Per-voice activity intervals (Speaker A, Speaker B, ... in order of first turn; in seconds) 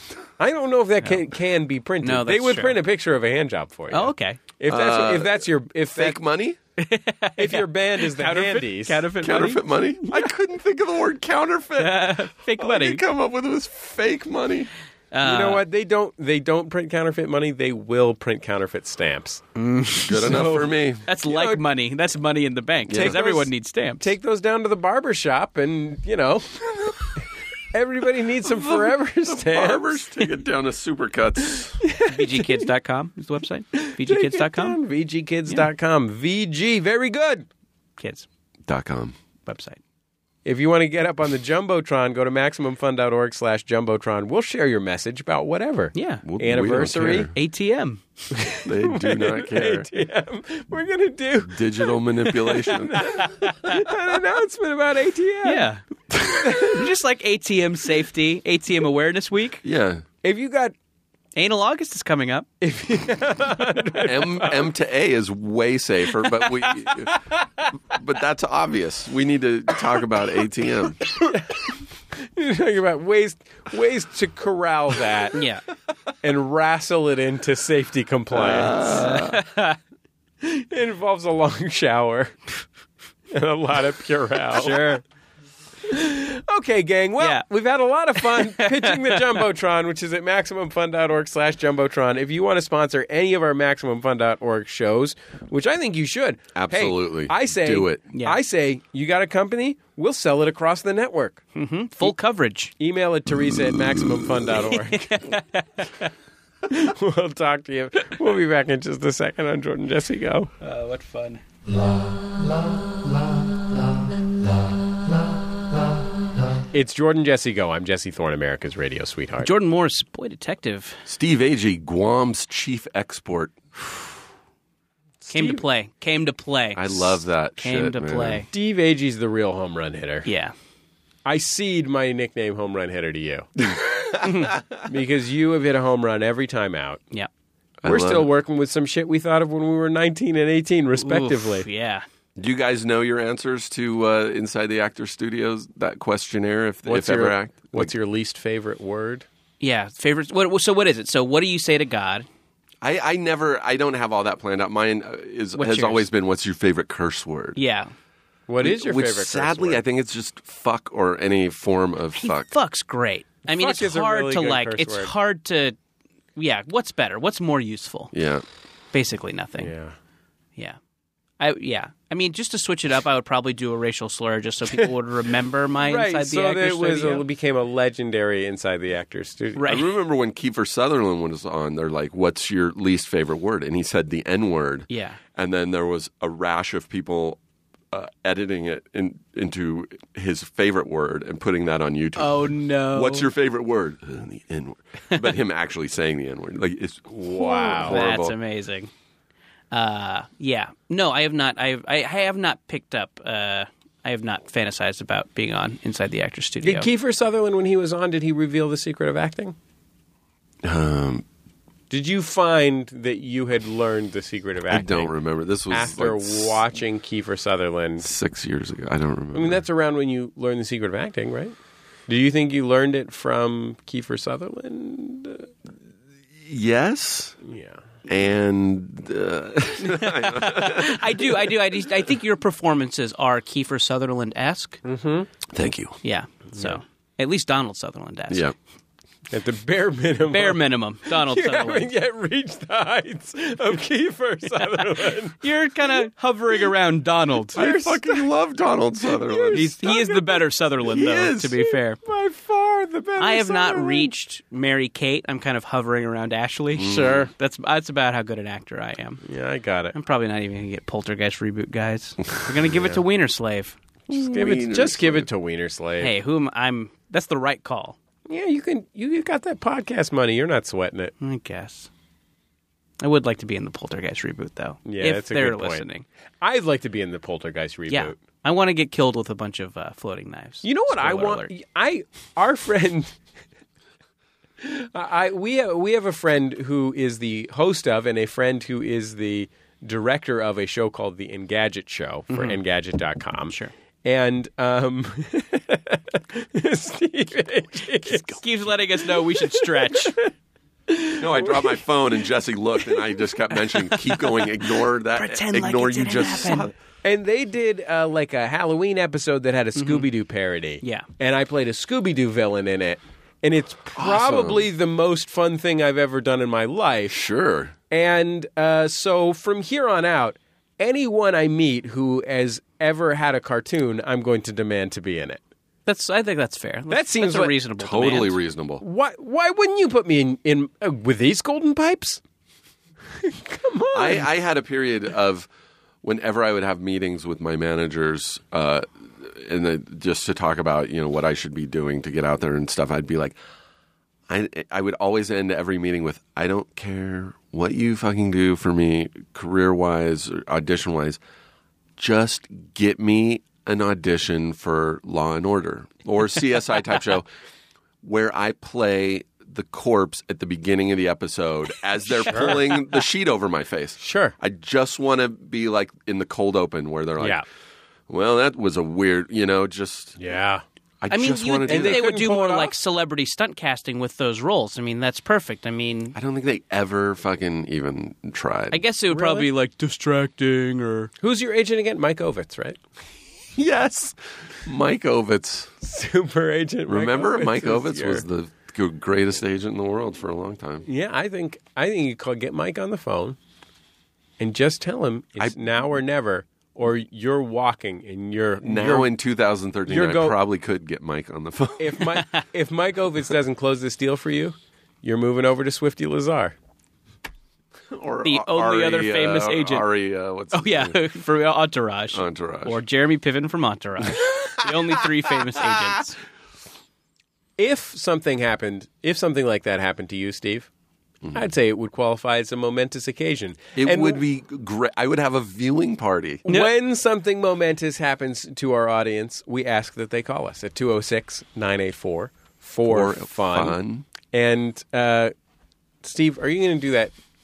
Speaker A: 0.4-6.2, 7.4-9.1, 15.2-19.4, 20.3-20.7, 21.2-21.6, 22.9-30.1, 31.8-32.7, 33.8-37.5, 40.5-47.3, 48.3-55.7, 56.3-56.9, 60.2-60.8, 62.6-64.7, 71.1-75.4, 76.2-79.0, 80.4-82.4, 83.3-85.0, 85.9-101.4, 102.8-105.3, 106.7-110.5, 116.7-119.5, 125.2-125.6, 128.5-130.3, 131.2-133.7, 134.8-137.0, 137.8-141.7, 146.8-149.3, 158.5-159.8, 163.5-165.1, 169.6-169.9, 175.8-179.8, 197.3-198.0, 206.6-209.6, 211.9-215.1, 215.7-218.1, 219.3-221.6, 222.1-225.5, 227.4-227.8, 234.8-235.3, 236.5-236.8, 239.3-245.4, 247.6-248.3, 249.1-250.5, 251.6-254.1, 259.2-260.0, 264.1-266.1, 268.3-271.1, 274.9-275.9, 276.4-278.2, 280.6-283.2, 284.6-298.4, 299.4-300.3, 300.9-301.8, 307.0-317.2, 317.9-325.4, 326.9-327.6, 328.8-332.2, 333.2-334.3, 362.3-362.6, 364.0-364.4, 367.2-367.4, 370.2-370.6, 371.7-372.7, 379.1-379.5, 381.2-382.8, 385.8-388.2, 390.9-393.4, 394.4-399.1, 399.9-400.4, 401.8-406.6, 417.6-420.7, 421.3-424.2, 426.4-433.8, 434.3-435.3, 436.0-437.1
Speaker B: 2.0-2.8, 3.9-4.4, 6.8-9.6, 11.8-13.0, 15.1-15.6, 19.6-20.4, 21.1-24.1, 32.1-34.8, 38.0-38.3, 39.5-39.8, 46.0-46.2, 47.3-48.0, 55.4-55.8, 56.4-59.6, 61.4-62.5, 75.3-75.6, 79.0-79.8, 84.5-85.0, 88.2-89.4, 98.1-98.4, 101.6-102.7, 104.6-106.1, 110.6-111.4, 119.4-121.0, 125.3-128.5, 130.2-130.5, 134.2-134.5, 141.0-142.1, 149.6-152.3, 155.6-156.1, 157.6-157.9, 162.2-165.8, 166.4-168.1, 168.9-169.7, 171.4-177.2, 179.6-179.9, 184.9-185.2, 192.2-193.3, 197.7-198.9, 199.7-206.9, 229.8-234.8, 236.0-238.5, 240.3-241.9, 245.4-247.6, 249.5-252.0, 253.2-259.2, 259.9-263.8, 266.0-268.0, 271.2-271.9, 273.0-276.1, 277.9-281.5, 292.3-292.6, 298.0-300.1, 305.1-306.7, 309.8-310.1, 310.8-311.1, 325.9-328.4, 371.1-376.1, 378.7-381.1, 408.2-409.9, 410.5-416.2
Speaker C: 4.7-6.6, 9.2-14.7, 20.1-21.0, 22.9-23.2, 28.5-31.8, 38.7-39.1, 46.2-47.3, 48.6-49.9, 51.5-53.2, 59.6-60.0, 64.0-67.2, 67.9-71.0, 78.3-79.4, 96.5-98.0, 121.1-123.6, 126.8-128.4, 137.8-138.3, 142.4-147.9, 152.8-157.6, 158.6-162.5, 168.1-168.4, 179.7-187.4, 187.9-198.3, 210.6-211.2, 214.7-216.6, 218.0-219.6, 226.4-227.4, 228.1-231.2, 235.5-236.0, 247.6-249.7, 250.9-251.5, 256.8-257.3, 264.1-265.3, 301.2-306.7, 314.0-314.7, 317.1-317.8, 327.8-328.8, 333.9-335.5, 336.0-343.4, 344.3-351.2, 352.0-357.3, 358.0-367.4, 368.1-370.2, 371.0-372.1, 376.1-378.8, 383.6-385.7, 386.9-390.9, 398.6-402.0, 407.9-411.0, 412.1-412.8, 423.8-426.4, 432.9-434.1